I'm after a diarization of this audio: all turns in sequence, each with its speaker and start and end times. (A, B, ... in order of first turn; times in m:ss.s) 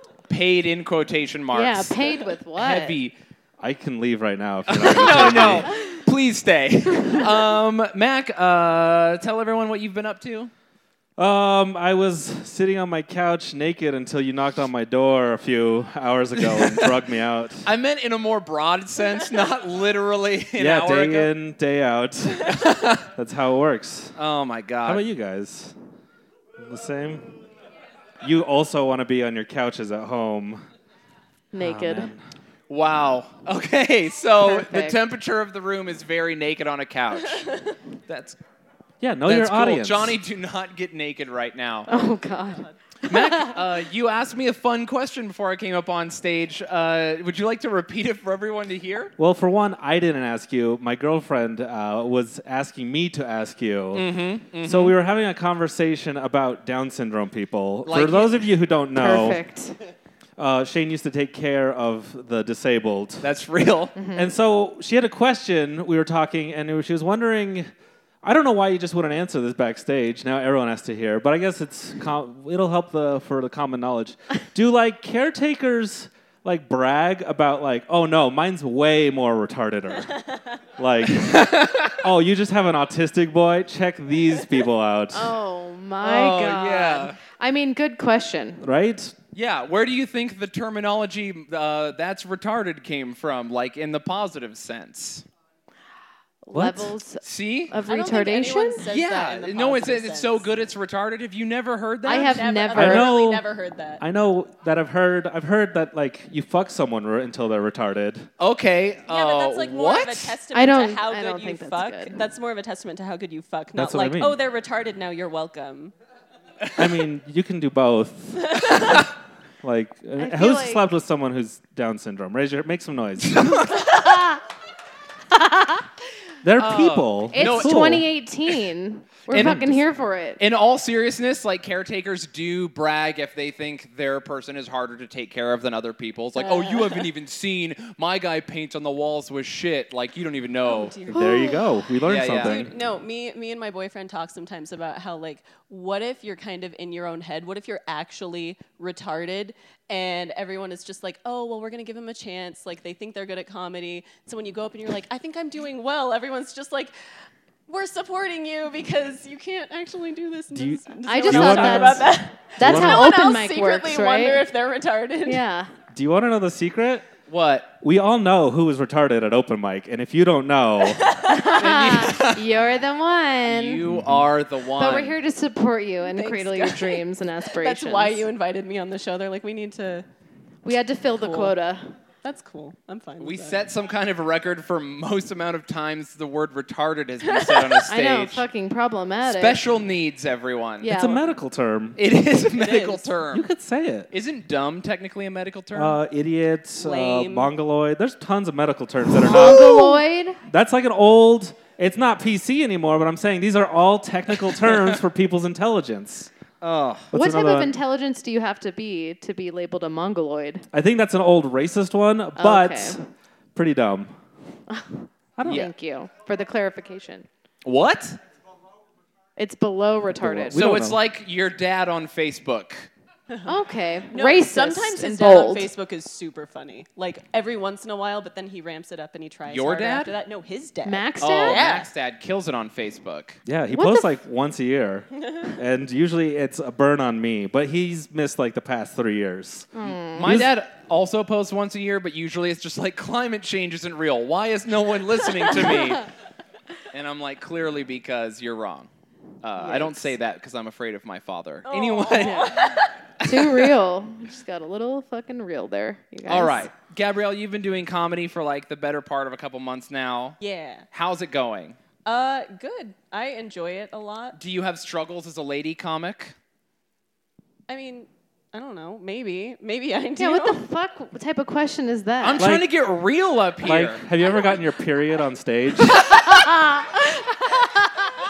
0:00.3-0:03.1 A
0:01.5-0:03.0 B
0:03.6-0:05.7 C
0:04.7-0:10.5 A
0:05.1-0:06.0 B
0:11.2-0:17.7 C
0:16.4-0:17.0 A
0:17.6-0:21.3 A
0:20.6-0:24.1 C
0:22.4-0:23.0 A
0:24.2-0:25.0 A
0:24.8-0:25.7 C
0:26.6-0:27.3 C
0:28.2-0:30.6 C
0:31.5-0:32.1 B
0:31.6-0:32.2 C
0:32.7-0:37.5 A
0:34.4-0:35.0 B
0:38.1-0:38.4 A
0:39.0-0:40.2 C
0:39.3-0:41.9 A
0:41.9-0:43.5 B
0:42.5-0:42.7 D
0:43.1-0:49.1 A
0:49.2-0:54.1 C
0:53.9-0:55.0 A
0:54.6-0:59.4 C
0:57.8-0:58.5 A
0:59.0-0:59.8 B
1:00.4-1:03.3 C
1:03.2-1:03.9 A
1:04.0-1:04.3 B
1:04.1-1:07.7 C
1:08.2-1:25.3 C
1:21.2-1:22.0 A
1:25.1-1:28.6 B
1:26.0-1:27.2 A
1:28.6-1:29.2 C
1:29.3-1:35.2 A
1:36.4-1:38.9 B
1:36.5-1:36.9 C
1:37.2-1:37.7 A
1:37.8-1:40.5 D
1:38.9-1:42.4 A
1:42.0-1:43.3 B
1:42.2-1:44.0 D
1:42.7-1:43.4 C
1:44.0-1:48.3 C
1:48.4-1:50.4 A
1:49.1-1:55.9 D
1:50.5-1:52.2 B
1:53.8-1:54.4 C
1:56.8-2:03.7 C
2:00.2-2:00.8 B
2:03.3-2:04.1 A
2:03.8-2:04.4 B
2:05.3-2:05.8 B
2:06.4-2:08.1 C
2:06.6-2:08.6 A
2:07.3-2:10.4 B
2:09.3-2:09.7 A
2:09.3-2:09.8 C
2:10.4-2:20.9 A
2:16.4-2:17.1 D
2:20.6-2:21.5 D
2:21.1-2:22.7 C
2:21.1-2:21.6 B
2:22.0-2:22.6 A
2:22.3-2:36.9 D
2:37.7-2:45.4 D
2:40.5-2:43.2 C
2:41.1-2:44.5 B
2:45.2-2:45.7 B
2:45.9-2:47.0 C
2:47.3-2:47.7 A
2:47.8-2:51.0 C
2:50.8-2:51.6 D
2:51.3-2:53.8 B
2:51.5-2:52.5 A
2:53.4-2:55.2 A
2:53.9-2:54.3 C
2:54.8-2:58.3 B
2:56.0-3:00.0 D
3:00.6-3:01.9 B
3:01.2-3:01.5 D
3:02.2-3:03.7 D
3:03.2-3:08.4 A
3:07.2-3:07.8 D
3:07.9-3:09.6 B
3:09.2-3:10.9 A
3:10.8-3:11.2 B
3:10.9-3:12.0 C
3:12.0-3:13.5 A
3:12.5-3:13.1 D
3:13.3-3:14.1 C
3:14.1-3:16.0 A
3:15.7-3:19.9 C
3:16.8-3:17.5 D
3:19.2-3:20.4 B
3:20.5-3:26.3 C
3:24.5-3:25.0 A
3:26.6-3:27.1 A
3:27.1-3:27.8 C
3:27.1-3:30.6 B
3:30.7-3:33.0 C
3:32.4-3:33.0 B
3:33.5-3:34.1 C
3:34.7-3:37.2 B
3:35.4-3:35.7 C
3:35.4-3:35.7 A
3:37.6-3:38.2 A
3:39.4-3:40.6 B
3:40.2-3:41.0 C
3:40.5-3:42.9 A
3:43.3-3:43.6 D
3:43.5-3:45.7 B
3:44.1-3:51.9 D
3:49.5-3:50.1 A
3:50.8-3:51.6 B
3:51.2-3:53.4 A
3:53.4-4:00.5 C
3:53.7-3:54.1 B
3:55.2-3:55.5 D
3:59.7-4:00.5 B
4:00.1-4:06.1 A
4:06.9-4:08.9 A
4:09.4-4:13.7 A
4:09.6-4:10.1 B
4:11.6-4:12.9 D
4:13.2-4:16.7 B
4:16.3-4:20.4 A
4:20.4-4:20.8 D
4:20.9-4:21.8 A
4:22.0-4:24.4 D
4:24.4-4:26.3 A
4:27.7-4:30.6 D
4:30.2-4:32.5 B
4:32.2-4:34.0 A
4:32.4-4:32.7 C
4:33.6-4:36.0 C
4:36.0-4:38.0 B